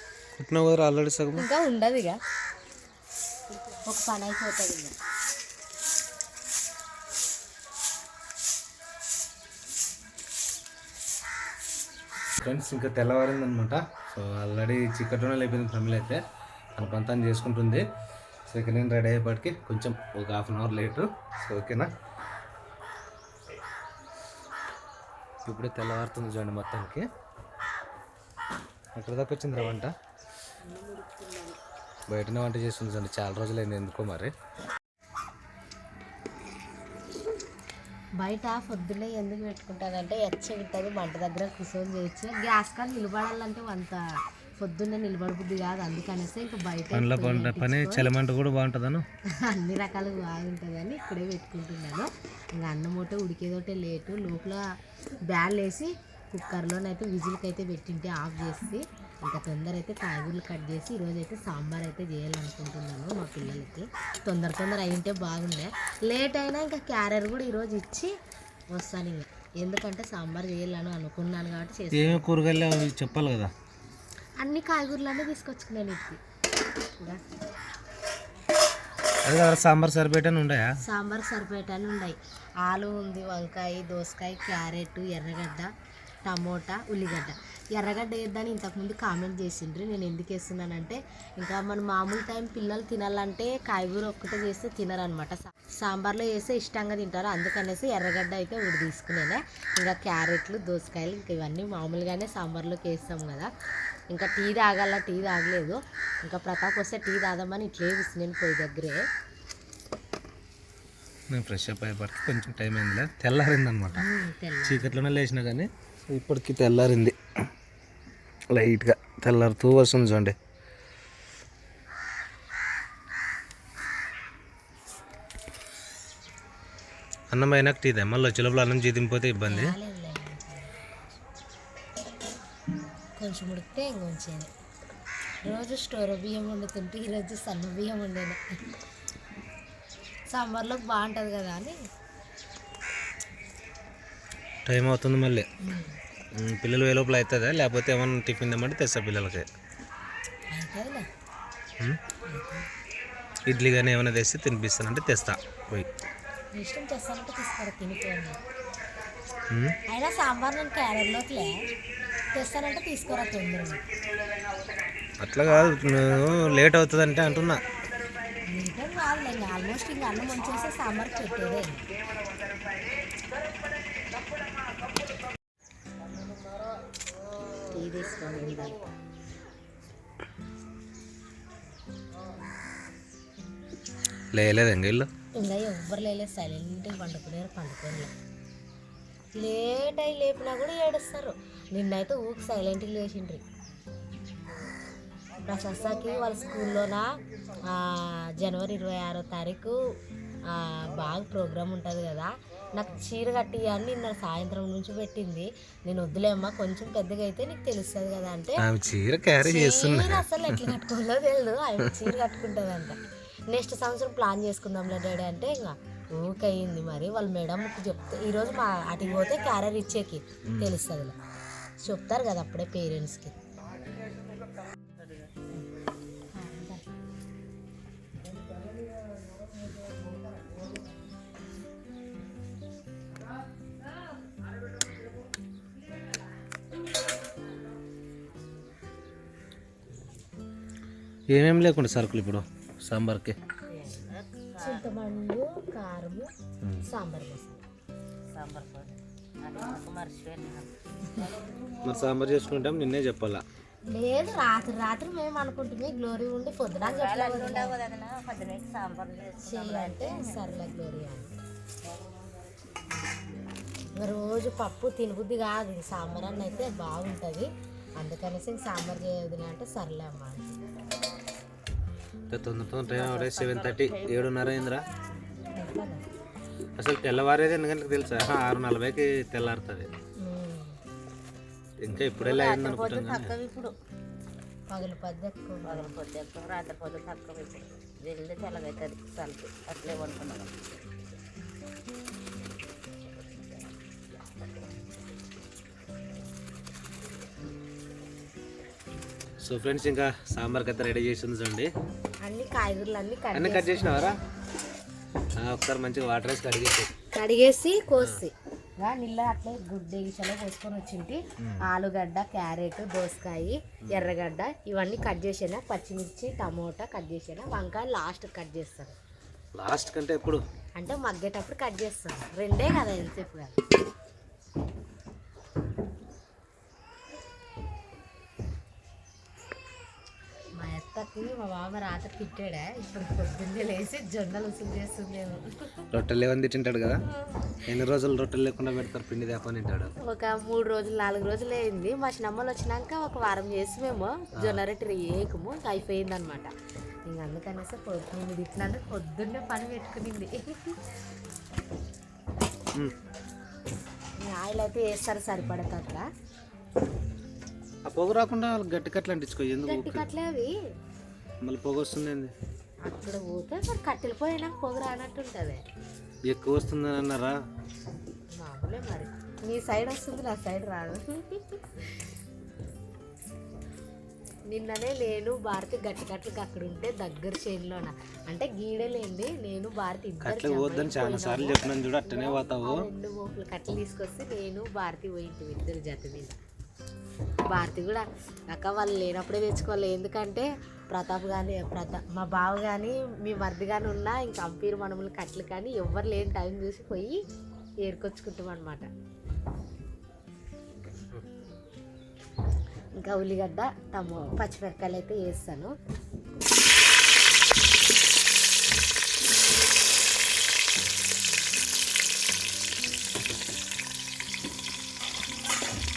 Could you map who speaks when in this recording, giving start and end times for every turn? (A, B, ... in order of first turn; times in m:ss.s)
0:00.4-0:01.5 A
0:01.4-0:02.2 B
0:03.8-0:05.0 B
0:12.4-0:16.2 A
0:16.8-0:17.9 A
0:18.5-0:21.9 A
0:25.4-0:27.1 A
0:29.0-0:30.0 A
0:30.7-0:31.6 B
0:32.1-0:34.3 A
0:38.2-0:48.1 B
0:46.9-0:49.1 A
0:49.3-0:54.7 B
0:55.2-1:08.2 B
1:08.7-1:12.2 B
1:11.9-1:13.5 A
1:14.4-1:16.2 B
1:19.2-1:20.7 A
1:20.8-1:25.7 B
1:26.2-1:43.5 B
1:44.1-1:49.1 B
1:51.3-1:54.0 A
1:54.0-1:55.0 B
1:54.6-1:57.2 A
1:58.5-2:00.4 A
2:07.3-2:09.8 A
2:09.5-2:11.0 B
2:13.2-2:14.5 B
2:15.4-2:18.4 B
2:20.3-2:21.8 B
2:24.6-2:25.5 A
2:25.6-2:26.0 B
2:26.3-2:29.5 A
2:30.5-2:31.1 B
2:32.3-2:32.7 B
2:33.5-2:35.9 A
2:36.6-2:38.4 B
2:39.5-2:39.8 A
2:39.9-2:41.7 B
2:42.3-2:43.8 B
2:45.2-2:47.6 A
2:48.5-2:51.9 B
2:57.7-2:58.8 B
3:04.3-3:05.1 A
3:05.3-3:08.1 B
3:09.4-3:13.4 B
3:15.4-3:17.1 B
3:17.6-3:19.8 B
3:20.5-3:28.6 B
3:28.6-3:30.7 A
3:29.4-3:33.0 B
3:31.8-3:32.1 A
3:33.5-3:41.2 B
3:40.4-3:40.8 A
3:41.8-3:43.4 B
3:46.4-3:46.8 B
4:01.3-4:03.4 A
4:03.7-4:04.9 C
4:04.6-4:06.3 B
4:06.8-4:07.6 B
4:08.3-4:10.7 C
4:11.8-4:13.4 A
4:13.9-4:17.7 B
4:16.8-4:20.4 C
4:19.4-4:21.3 B
4:24.0-4:30.6 B
4:32.3-4:34.9 A
4:32.9-4:34.4 C
4:35.6-4:36.1 B
4:36.8-4:39.9 A
4:40.2-4:40.8 B
4:41.8-4:43.3 A
4:42.2-4:43.7 C
4:44.7-4:45.9 B
4:45.7-4:50.6 C
4:59.4-5:01.7 A
5:02.2-5:04.1 B
5:03.3-5:04.2 A
5:05.4-5:06.9 A
5:07.2-5:19.0 B
5:11.4-5:11.6 A
5:13.8-5:14.1 A
5:19.6-5:20.4 A
5:20.8-5:23.6 B
5:30.6-5:35.7 B
5:35.9-5:37.0 A
5:37.7-5:39.9 A
5:40.0-5:46.5 B
5:47.1-5:50.8 B
5:54.2-5:56.1 B
5:57.9-6:00.1 A
5:59.6-6:00.6 B
6:01.4-6:02.3 A
6:02.9-6:05.6 B
6:06.3-6:07.4 A
6:08.3-6:12.1 B
6:14.5-6:26.4 B
6:20.2-6:22.9 A
6:27.5-6:37.2 B
6:37.8-6:38.9 B
6:43.0-6:45.8 B